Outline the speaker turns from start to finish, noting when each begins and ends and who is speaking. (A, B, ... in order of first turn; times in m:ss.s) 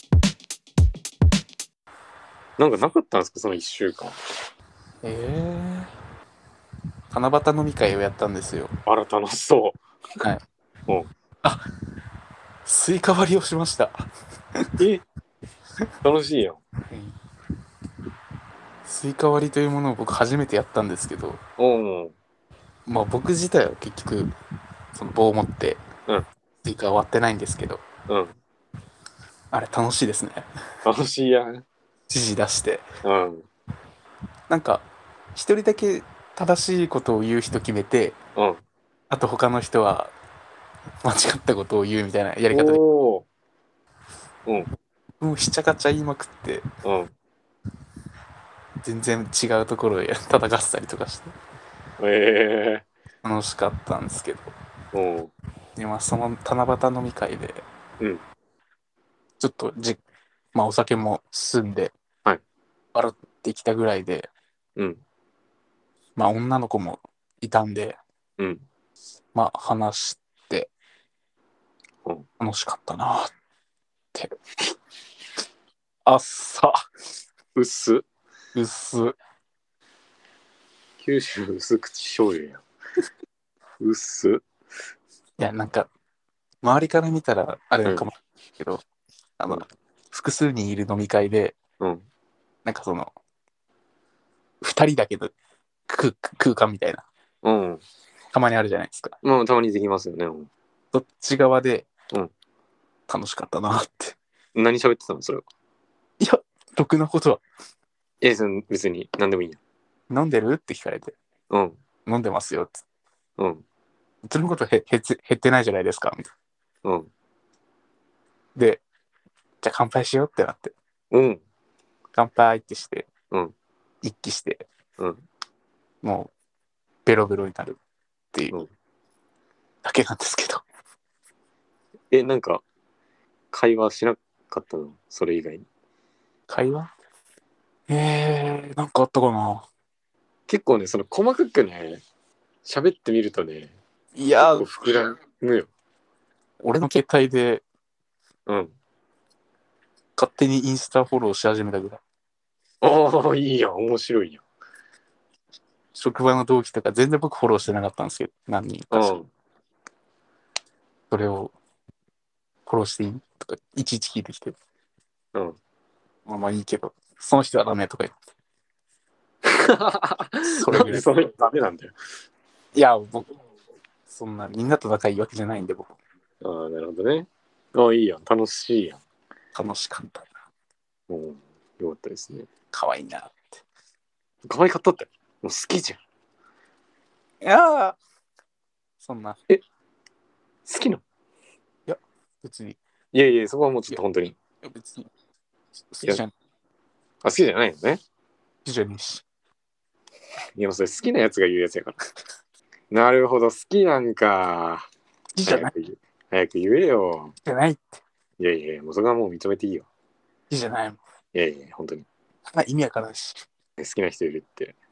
0:02.6-0:04.2 A
0:05.0-0:05.9 B
0:07.1-0:08.7 B
0:08.8-0:09.8 A
0:12.6-0:14.7 B
0:14.8-0:15.0 A
0:16.0-0:16.6 A
0:16.9-0:17.2 B
0:18.8-0:21.4 B
0:21.6-0:22.2 A
0:22.8-0:24.3 B
0:24.9-0:25.8 B
0:26.6-0:27.8 B
0:28.1-0:28.4 A
0:29.5-0:30.5 B
0:30.8-0:31.6 A
0:32.1-0:32.8 B
0:33.0-0:33.5 A
0:34.5-0:38.2 B
0:38.4-0:38.6 A
0:39.1-0:40.1 B
0:41.0-0:42.8 B
0:42.5-0:43.3 A
0:45.2-0:46.7 B
0:46.8-0:47.1 A
0:48.8-0:51.3 B
0:52.0-0:52.9 A
0:53.2-0:54.5 B
0:54.9-0:55.3 A
0:55.8-0:57.6 B
0:58.0-0:58.2 A
0:59.4-1:00.0 B
1:00.5-1:01.9 B
1:02.9-1:04.3 B
1:04.8-1:05.0 A
1:06.2-1:08.0 B
1:08.4-1:08.6 A
1:09.3-1:10.7 B
1:12.4-1:13.3 B
1:16.0-1:16.8 B
1:17.6-1:18.0 A
1:18.5-1:19.2 B
1:21.0-1:22.6 A
1:23.8-1:24.4 A
1:25.4-1:25.9 B
1:26.6-1:28.8 B
1:27.8-1:28.1 A
1:29.4-1:31.6 B
1:31.8-1:32.0 A
1:32.6-1:33.1 B
1:34.6-1:35.3 B
1:35.9-1:37.1 B
1:37.4-1:37.8 A
1:38.3-1:39.2 B
1:39.2-1:40.5 A
1:40.9-1:41.9 B
1:43.1-1:44.2 B
1:44.5-1:45.4 A
1:46.2-1:47.4 B
1:48.2-1:49.6 A
1:50.1-1:51.2 B
1:51.5-1:51.8 A
1:52.0-1:52.8 B
1:53.4-1:53.6 A
1:54.2-1:56.3 B
1:56.8-1:57.1 A
1:58.6-1:58.8 B
1:59.6-2:00.7 B
2:01.1-2:01.4 A
2:02.1-2:03.1 B
2:04.0-2:04.6 B
2:05.0-2:05.2 A
2:06.0-2:06.3 B
2:07.0-2:07.8 B
2:09.8-2:10.6 B
2:12.1-2:12.6 A
2:13.5-2:15.6 A
2:16.5-2:16.9 B
2:17.9-2:19.7 B
2:20.5-2:22.0 A
2:22.6-2:23.7 A
2:24.1-2:24.6 B
2:24.4-2:25.7 A
2:26.6-2:27.6 B
2:28.5-2:28.8 A
2:30.2-2:32.0 B
2:32.8-2:34.4 A
2:35.9-2:39.1 B
2:38.9-2:39.3 A
2:41.1-2:41.5 B
2:42.6-2:44.6 B
2:46.2-2:48.2 B
2:49.4-2:51.9 A
2:50.5-2:51.1 B
2:52.7-2:53.3 B
2:54.1-2:55.9 B
2:56.4-2:59.0 A
2:59.5-3:00.3 B
3:01.1-3:02.5 A
3:02.7-3:03.6 B
3:04.5-3:06.0 A
3:07.4-3:08.0 B
3:09.0-3:09.4 B
3:10.7-3:11.0 A
3:11.9-3:12.8 B
3:13.1-3:14.4 A
3:14.6-3:15.1 B
3:15.9-3:16.3 B
3:17.2-3:18.0 A
3:18.6-3:19.2 B
3:20.6-3:22.0 A
3:22.9-3:24.9 A
3:25.4-3:25.7 B
3:25.4-3:27.4 A
3:27.4-3:28.0 B
3:28.4-3:29.9 A
3:30.5-3:31.0 B
3:31.3-3:32.1 A
3:32.5-3:33.4 B
3:33.8-3:34.8 A